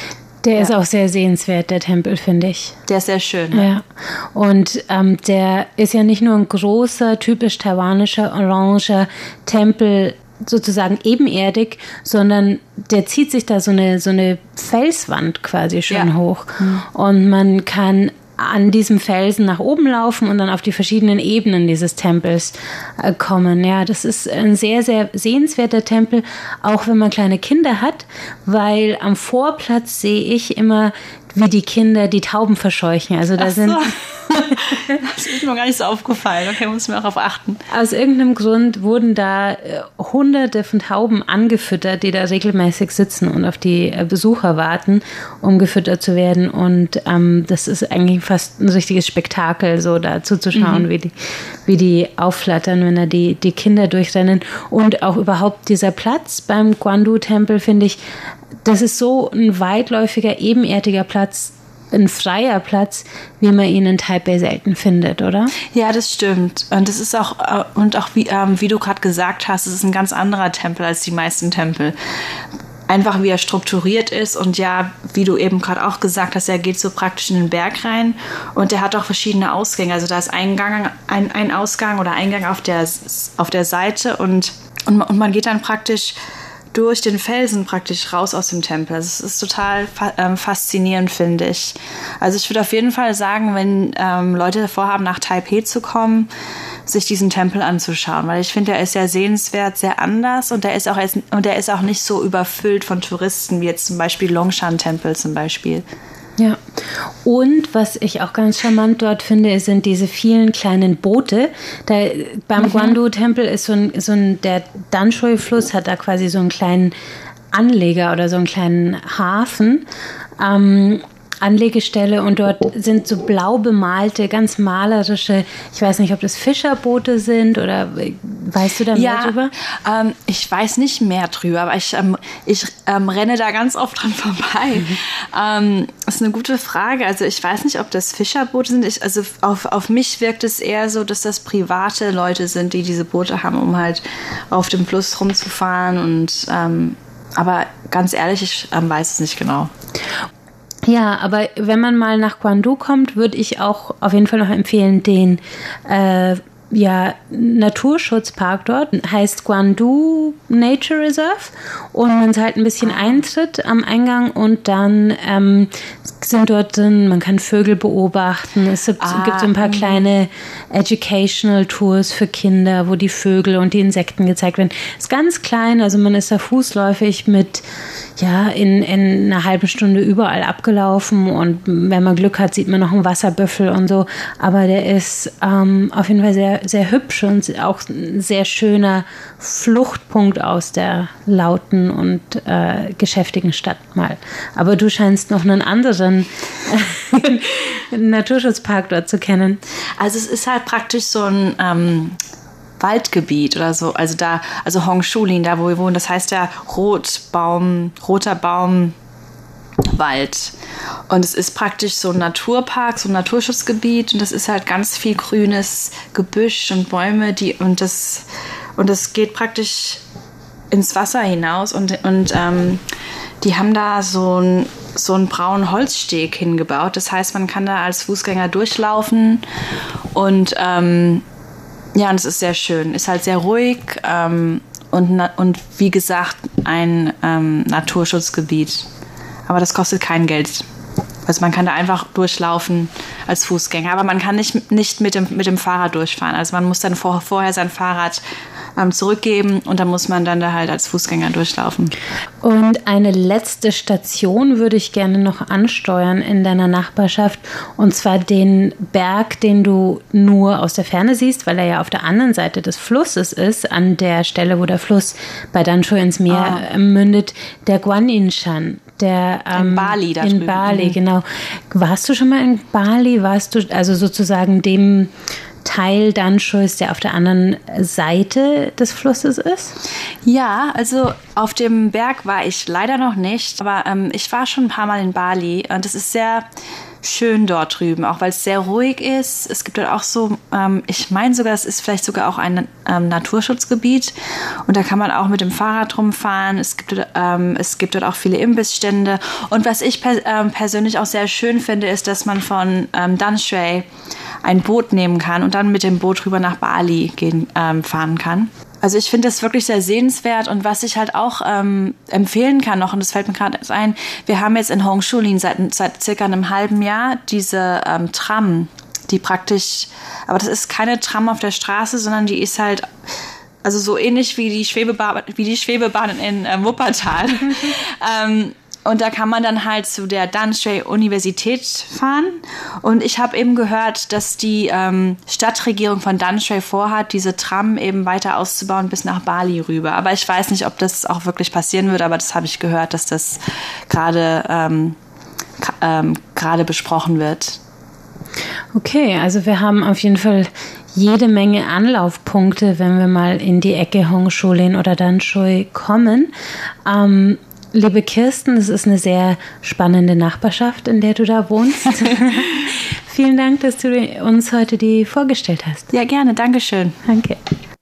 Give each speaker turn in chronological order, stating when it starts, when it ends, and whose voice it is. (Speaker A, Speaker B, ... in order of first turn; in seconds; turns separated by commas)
Speaker A: 0.4-2.8, Speaker B: 2.9-3.7, Speaker A: 3.5-35.0, Speaker B: 15.9-16.8, Speaker B: 33.4-37.6, Speaker A: 37.7-51.1, Speaker B: 50.5-50.9, Speaker A: 51.6-58.0, Speaker A: 58.6-65.5, Speaker B: 65.7-72.0, Speaker B: 72.9-86.2, Speaker B: 86.7-96.3, Speaker B: 96.8-105.8, Speaker A: 106.4-116.9, Speaker B: 112.6-113.0, Speaker A: 117.5-119.8, Speaker A: 120.4-129.5, Speaker B: 128.9-149.7, Speaker A: 150.8-177.6, Speaker B: 162.8-163.2, Speaker B: 169.0-170.0, Speaker A: 178.2-199.6, Speaker B: 200.0-202.2, Speaker B: 202.8-208.9, Speaker B: 209.8-210.5, Speaker B: 211.1-220.0, Speaker B: 220.7-222.8, Speaker B: 223.4-229.4, Speaker B: 230.1-231.2, Speaker B: 231.9-238.9, Speaker B: 239.5-240.7, Speaker B: 241.2-248.2, Speaker B: 248.8-251.9, Speaker A: 252.4-275.1, Speaker B: 266.3-266.6, Speaker B: 269.5-271.0, Speaker A: 275.6-279.7, Speaker B: 280.2-286.5, Speaker B: 287.0-303.9, Speaker B: 304.4-322.9, Speaker B: 323.6-345.0, Speaker B: 345.6-347.6, Speaker A: 348.7-356.3, Speaker A: 356.9-365.9, Speaker B: 365.9-367.0, Speaker A: 367.1-367.4